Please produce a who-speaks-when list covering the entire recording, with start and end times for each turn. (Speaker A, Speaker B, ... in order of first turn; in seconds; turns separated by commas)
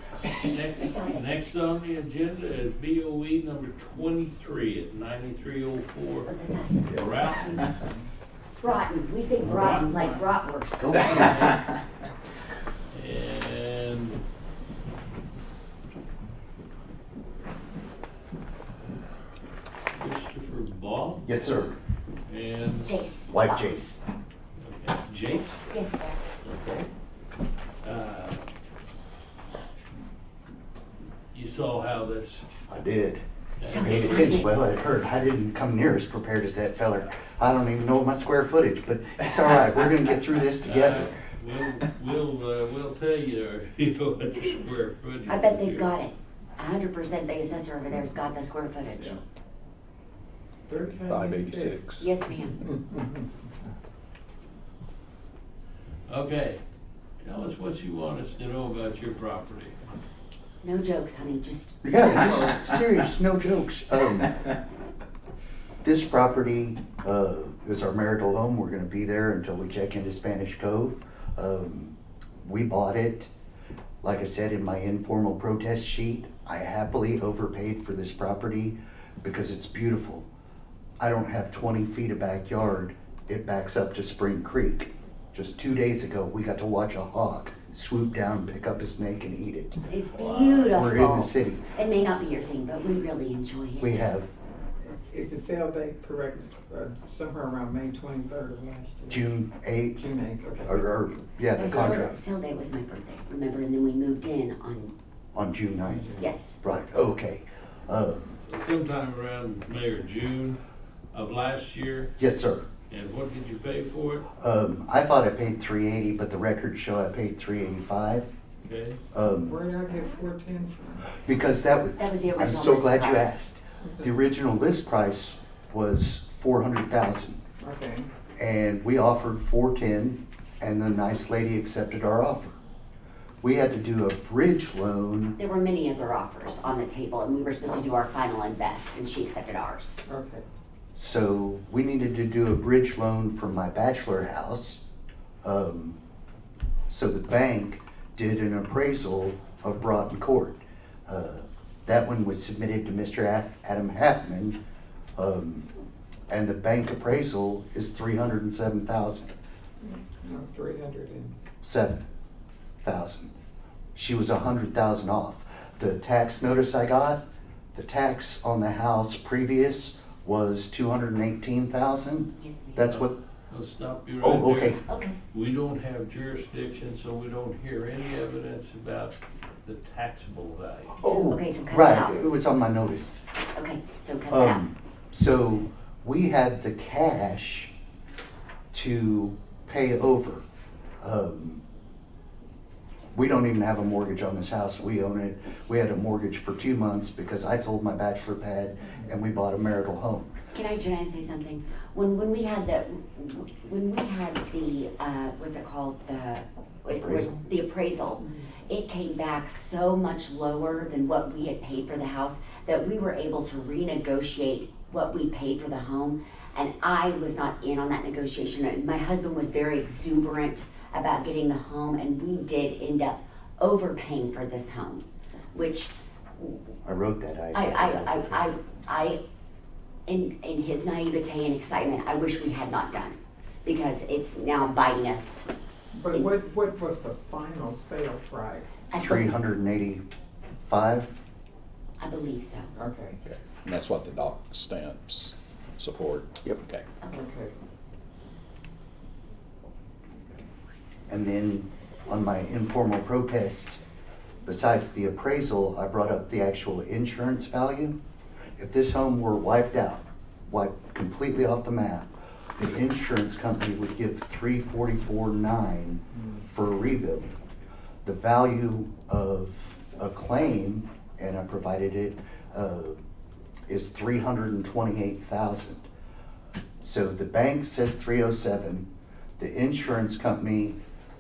Speaker A: 0.3-6.3, Speaker B: 0.8-1.2, Speaker B: 6.3-7.7, Speaker A: 6.9-7.7, Speaker B: 8.6-11.6, Speaker A: 9.4-10.3, Speaker C: 10.8-11.4, Speaker A: 11.0-11.7, Speaker A: 12.9-14.2, Speaker A: 19.9-21.3, Speaker C: 21.3-21.8, Speaker A: 22.3-22.9, Speaker B: 22.8-23.8, Speaker C: 23.3-24.0, Speaker A: 24.6-25.6, Speaker B: 25.7-26.3, Speaker A: 26.4-26.9, Speaker A: 27.8-28.4, Speaker A: 31.3-32.4, Speaker C: 32.7-41.1, Speaker A: 33.6-34.4, Speaker B: 33.6-34.5, Speaker A: 40.6-45.9, Speaker B: 45.3-49.2, Speaker D: 50.7-52.0, Speaker E: 50.8-52.1, Speaker B: 52.0-52.6, Speaker D: 52.6-53.2, Speaker A: 56.1-56.6, Speaker A: 57.2-59.8, Speaker B: 60.6-62.5, Speaker C: 61.8-64.4, Speaker C: 65.8-73.3, Speaker C: 74.0-80.3, Speaker C: 81.0-89.8, Speaker B: 89.9-94.1, Speaker A: 90.2-90.6, Speaker C: 90.6-91.7, Speaker C: 93.8-94.3, Speaker D: 94.8-99.3, Speaker C: 99.1-100.1, Speaker D: 100.0-100.8, Speaker C: 100.7-102.2, Speaker B: 101.5-104.9, Speaker C: 105.3-106.1, Speaker D: 105.8-106.3, Speaker B: 106.2-106.6, Speaker C: 106.6-108.4, Speaker A: 108.5-110.6, Speaker A: 111.1-112.1, Speaker C: 112.2-112.7, Speaker A: 112.9-114.3, Speaker C: 114.4-118.3, Speaker A: 118.6-119.0, Speaker C: 119.1-119.6, Speaker D: 119.5-121.1, Speaker C: 121.2-127.4, Speaker B: 122.0-123.5, Speaker D: 123.8-124.1, Speaker D: 127.6-128.1, Speaker C: 128.4-132.6, Speaker C: 133.4-135.4, Speaker B: 135.4-140.0, Speaker D: 140.1-140.4, Speaker C: 141.0-144.8, Speaker C: 145.4-146.0, Speaker C: 146.9-154.6, Speaker C: 155.2-155.7, Speaker C: 156.3-159.3, Speaker D: 159.8-161.4, Speaker C: 161.6-162.0, Speaker C: 162.8-163.3, Speaker C: 163.9-167.2, Speaker C: 167.7-173.2, Speaker B: 172.4-172.9, Speaker A: 173.0-174.8, Speaker C: 174.2-174.8, Speaker B: 174.8-175.2, Speaker A: 175.3-181.1, Speaker C: 181.0-183.2, Speaker B: 181.3-182.3, Speaker B: 183.5-184.6, Speaker C: 184.3-187.7, Speaker C: 188.7-190.4, Speaker C: 191.0-191.6, Speaker C: 193.1-200.4, Speaker B: 200.5-226.6, Speaker C: 206.9-207.4, Speaker C: 226.8-228.6, Speaker B: 227.5-229.2, Speaker B: 230.1-235.5, Speaker D: 235.9-238.9, Speaker B: 238.9-239.3, Speaker C: 238.9-240.0, Speaker C: 240.7-241.1, Speaker B: 242.0-242.7, Speaker D: 242.8-243.2, Speaker E: 243.2-246.9, Speaker D: 247.1-247.5, Speaker C: 251.1-253.8, Speaker C: 254.4-258.0, Speaker C: 258.6-267.3, Speaker C: 268.0-273.0, Speaker C: 273.7-275.9, Speaker C: 276.8-278.9, Speaker C: 279.4-280.8